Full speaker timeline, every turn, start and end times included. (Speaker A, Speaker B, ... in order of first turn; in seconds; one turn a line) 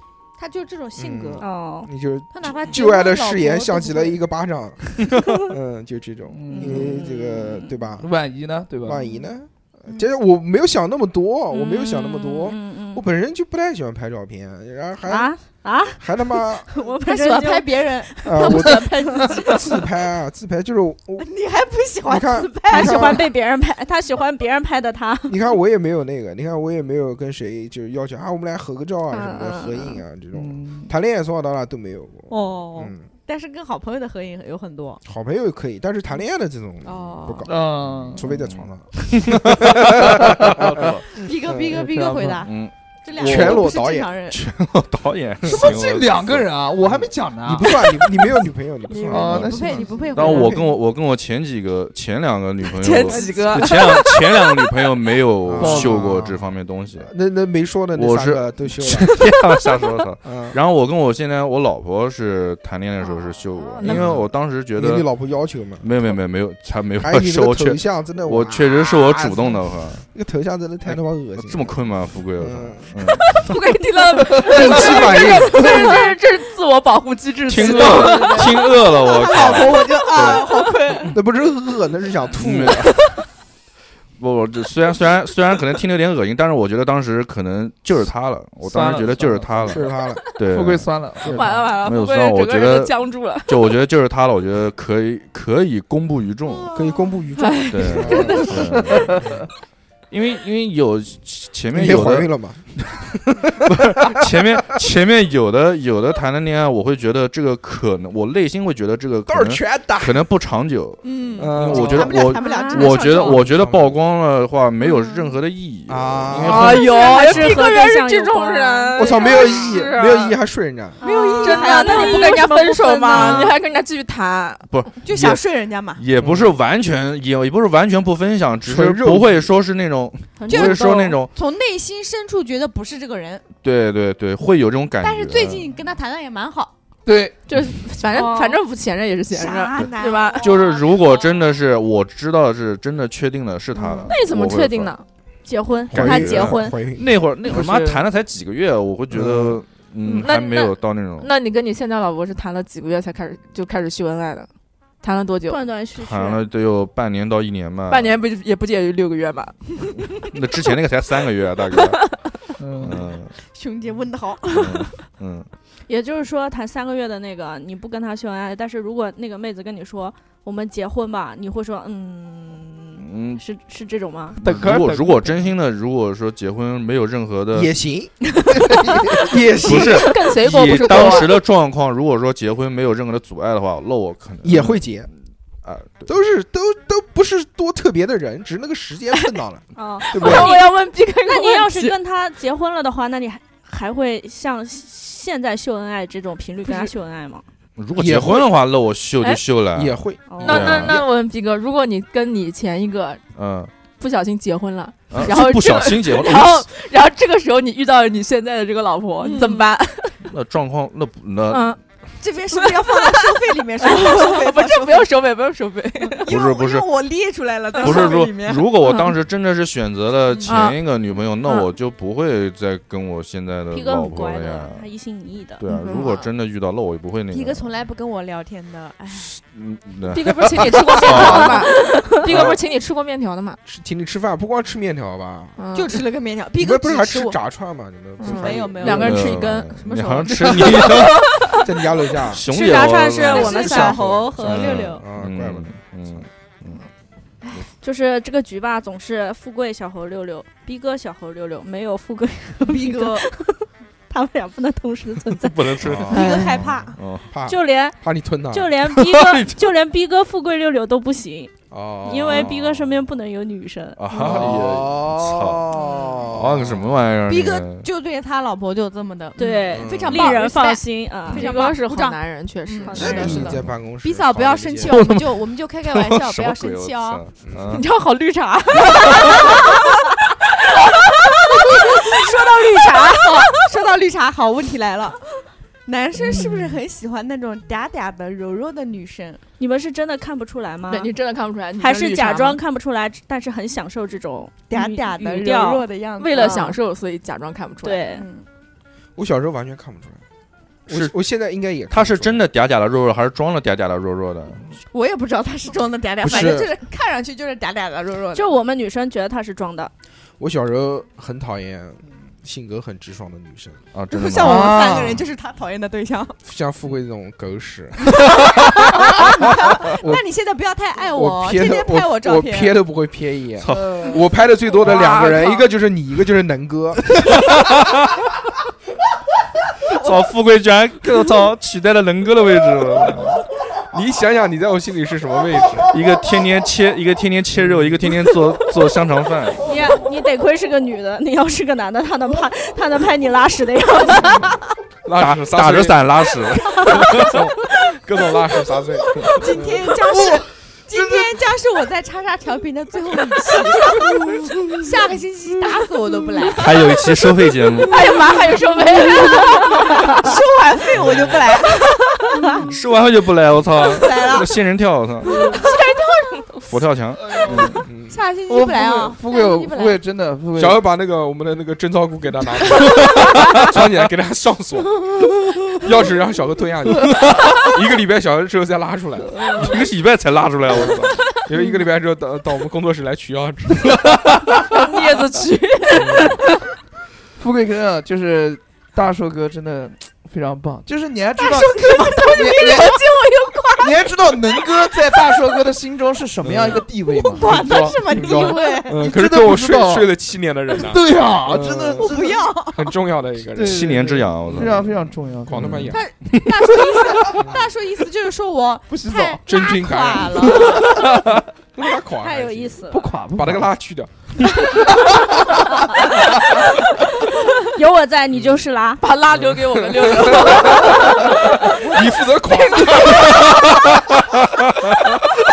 Speaker A: 0.4-1.4
Speaker B: 0.9-8.1
Speaker C: 1.4-1.9
Speaker A: 2.3-4.2
Speaker D: 6.3-7.0
Speaker C: 6.5-7.7
Speaker D: 8.0-9.0
Speaker B: 8.8-15.3
Speaker C: 11.5-13.0
Speaker C: 15.1-19.5
Speaker B: 16.0-16.7
Speaker A: 16.9-19.8
Speaker B: 18.2-21.3
Speaker A: 21.2-23.3
Speaker B: 22.1-23.3
Speaker C: 22.7-25.4
Speaker B: 25.3-33.1
Speaker C: 29.1-30.0
Speaker D: 30.3-30.9
Speaker A: 32.3-35.0
Speaker B: 35.0-41.7
Speaker A: 36.8-37.5
Speaker D: 37.5-38.3
Speaker E: 38.2-41.1
Speaker D: 40.0-40.6
Speaker A: 41.1-44.4
Speaker D: 41.7-42.5
Speaker E: 42.4-43.7
Speaker B: 43.2-44.2
Speaker E: 44.2-46.5
Speaker D: 45.5-47.9
Speaker B: 46.9-50.5
Speaker A: 48.9-50.8
Speaker D: 49.1-50.4
Speaker E: 50.1-57.1
Speaker F: 52.8-54.1
Speaker A: 52.8-54.0
Speaker B: 55.4-56.4
Speaker D: 55.6-56.1
Speaker B: 56.9-59.2
Speaker E: 57.9-65.1
Speaker B: 60.2-60.6
Speaker F: 63.5-64.0
Speaker B: 63.8-65.9
Speaker E: 65.8-70.0
Speaker B: 67.0-71.7
Speaker E: 70.9-73.5
Speaker B: 72.4-73.2
Speaker F: 73.4-78.7
Speaker D: 74.4-74.7
Speaker B: 74.4-75.7
Speaker E: 77.5-79.9
Speaker A: 77.5-81.1
Speaker B: 80.1-80.5
Speaker B: 81.1-82.9
Speaker E: 82.3-83.0
Speaker E: 84.2-96.7
Speaker D: 88.6-89.8
Speaker B: 89.6-90.4
Speaker D: 90.5-91.5
Speaker B: 91.2-91.6
Speaker F: 91.3-93.5
Speaker A: 96.5-97.4
Speaker B: 96.7-98.7
Speaker F: 97.4-99.0
Speaker E: 97.7-99.2
Speaker D: 98.9-99.3
Speaker E: 100.1-102.3
Speaker B: 101.7-104.8
Speaker E: 103.7-117.5
Speaker B: 109.3-110.2
Speaker A: 111.0-113.4
Speaker B: 111.4-112.2
Speaker C: 112.2-113.3
Speaker B: 113.1-114.0
Speaker A: 115.0-115.2
Speaker B: 115.9-117.0
Speaker F: 116.4-120.3
Speaker C: 116.6-119.7
Speaker B: 118.9-121.0
Speaker A: 121.0-122.5
Speaker C: 121.0-123.5
Speaker F: 121.4-124.7
Speaker A: 123.1-123.5
Speaker E: 124.7-125.4
Speaker A: 125.0-126.0
Speaker E: 125.9-131.3
Speaker B: 126.2-126.5
Speaker B: 128.6-129.5
Speaker A: 130.4-133.4
Speaker C: 130.5-130.8
Speaker E: 133.6-135.8
Speaker A: 135.0-136.7
Speaker D: 137.1-137.3
Speaker F: 137.5-140.4
Speaker C: 138.2-138.4
Speaker A: 138.2-138.4
Speaker A: 139.3-141.4
Speaker E: 140.4-144.9
Speaker A: 143.8-144.1
Speaker F: 144.1-145.0
Speaker C: 145.4-146.8
Speaker B: 145.9-147.1
Speaker E: 145.9-151.3
Speaker D: 147.4-148.1
Speaker B: 149.1-149.6
Speaker F: 150.0-154.5
Speaker F: 155.0-155.6
Speaker C: 155.5-156.4
Speaker E: 156.0-158.2
Speaker F: 157.9-160.1
Speaker E: 160.3-162.2
Speaker D: 162.6-163.0
Speaker E: 162.8-163.3
Speaker A: 163.4-164.9
Speaker E: 164.5-165.5
Speaker C: 165.9-174.4
Speaker E: 173.0-173.4
Speaker D: 174.4-175.5
Speaker E: 174.4-177.7
Speaker B: 177.5-178.3
Speaker D: 178.5-179.3
Speaker B: 179.1-180.2
Speaker F: 179.5-181.4
Speaker E: 179.6-185.0
Speaker B: 184.4-185.1
Speaker E: 185.6-186.1
Speaker B: 186.1-190.5
Speaker C: 189.8-197.4
Speaker F: 190.0-192.0
Speaker F: 196.6-196.9
Speaker E: 197.8-201.0
Speaker B: 197.9-198.5
Speaker B: 199.7-201.0
Speaker C: 200.3-200.7
Speaker F: 200.4-203.2
Speaker E: 203.3-203.7
Speaker F: 204.0-210.2
Speaker E: 205.1-206.7
Speaker A: 209.2-209.6
Speaker E: 210.2-211.8
Speaker F: 211.5-211.8
Speaker A: 212.2-215.1
Speaker F: 212.5-216.3
Speaker A: 216.0-218.7
Speaker E: 216.3-216.9
Speaker F: 217.8-218.2
Speaker E: 217.8-224.8
Speaker F: 218.8-219.1
Speaker F: 220.4-220.8
Speaker F: 221.4-221.7
Speaker C: 223.7-225.6
Speaker E: 225.6-227.7
Speaker F: 225.7-226.2
Speaker A: 227.3-229.4
Speaker E: 229.1-231.7
Speaker F: 230.1-233.6
Speaker C: 231.2-232.1
Speaker E: 232.2-232.6
Speaker B: 233.7-235.6
Speaker F: 235.6-235.9
Speaker A: 235.7-237.4
Speaker B: 236.6-239.1
Speaker A: 238.2-241.1
Speaker F: 238.2-239.8
Speaker E: 238.8-241.5
Speaker B: 241.6-242.4
Speaker E: 242.2-246.8
Speaker C: 242.5-244.8
Speaker A: 242.6-244.9
Speaker B: 243.9-245.7
Speaker C: 247.8-256.4
Speaker A: 252.6-253.3
Speaker E: 255.4-257.3
Speaker B: 255.8-256.1
Speaker A: 256.0-257.0
Speaker B: 257.3-258.8
Speaker C: 257.4-264.0
Speaker E: 258.9-259.6
Speaker B: 261.7-262.5
Speaker E: 262.2-263.0
Speaker E: 264.0-265.7
Speaker B: 264.1-266.9
Speaker A: 265.7-266.4
Speaker E: 266.3-267.9
Speaker A: 267.2-277.2
Speaker C: 269.4-271.7
Speaker B: 269.7-270.3
Speaker F: 271.3-273.6
Speaker C: 272.8-273.4
Speaker B: 272.9-275.1
Speaker E: 274.9-277.9
Speaker B: 277.4-277.7
Speaker F: 277.7-279.5
Speaker A: 279.1-279.6
Speaker A: 281.5-285.2
Speaker A: 285.9-289.4
Speaker C: 289.6-291.1
Speaker F: 290.9-292.6
Speaker C: 291.8-296.7
Speaker A: 294.7-296.8
Speaker F: 296.2-298.0
Speaker C: 297.8-298.2
Speaker A: 298.1-298.4
Speaker B: 299.1-300.2
Speaker B: 300.9-302.4
Speaker E: 301.9-304.7
Speaker A: 304.9-308.5
Speaker B: 306.2-306.7
Speaker C: 308.3-309.9
Speaker B: 310.4-313.8
Speaker E: 313.9-315.1
Speaker A: 314.1-316.4
Speaker D: 314.4-315.2
Speaker B: 316.4-318.4
Speaker A: 318.2-322.8
Speaker B: 319.9-320.2
Speaker B: 321.1-327.2
Speaker E: 323.6-324.2
Speaker D: 323.7-324.0
Speaker F: 324.8-325.7
Speaker E: 327.2-328.2
Speaker E: 329.9-333.4
Speaker B: 333.9-335.9
Speaker E: 335.9-339.6
Speaker C: 339.6-344.6
Speaker B: 345.0-346.3
Speaker E: 345.2-347.5
Speaker C: 346.6-347.2
Speaker B: 346.9-349.9
Speaker A: 349.2-357.2
Speaker E: 356.6-358.0
Speaker A: 357.8-362.8
Speaker F: 357.9-359.9
Speaker E: 361.0-361.4
Speaker E: 362.7-365.5
Speaker A: 363.7-364.6
Speaker A: 365.2-366.6
Speaker E: 366.6-367.8
Speaker D: 367.3-367.8
Speaker A: 367.3-370.0
Speaker B: 367.8-368.1
Speaker D: 368.5-370.8
Speaker B: 370.6-375.0
Speaker B: 375.8-379.7
Speaker E: 379.5-381.3
Speaker B: 380.7-384.2
Speaker F: 384.7-386.3
Speaker B: 385.9-386.4
Speaker D: 387.4-393.0
Speaker A: 391.4-394.9
Speaker D: 393.8-398.2
Speaker B: 396.4-396.9
Speaker A: 397.1-399.1
Speaker B: 397.4-402.1
Speaker D: 398.9-400.1
Speaker D: 400.8-402.3
Speaker A: 402.0-403.0
Speaker B: 402.7-404.9
Speaker D: 403.5-405.9
Speaker E: 403.6-404.9
Speaker B: 405.4-406.0
Speaker E: 405.6-407.2
Speaker A: 405.9-411.0
Speaker B: 407.4-407.7
Speaker D: 408.9-409.4
Speaker B: 409.4-410.8
Speaker D: 410.6-411.4
Speaker B: 411.8-414.9
Speaker C: 412.2-413.1
Speaker D: 412.9-413.7
Speaker C: 416.0-416.9
Speaker C: 417.6-419.0
Speaker F: 419.0-421.5
Speaker B: 419.3-423.4
Speaker F: 422.8-423.0
Speaker E: 423.4-423.6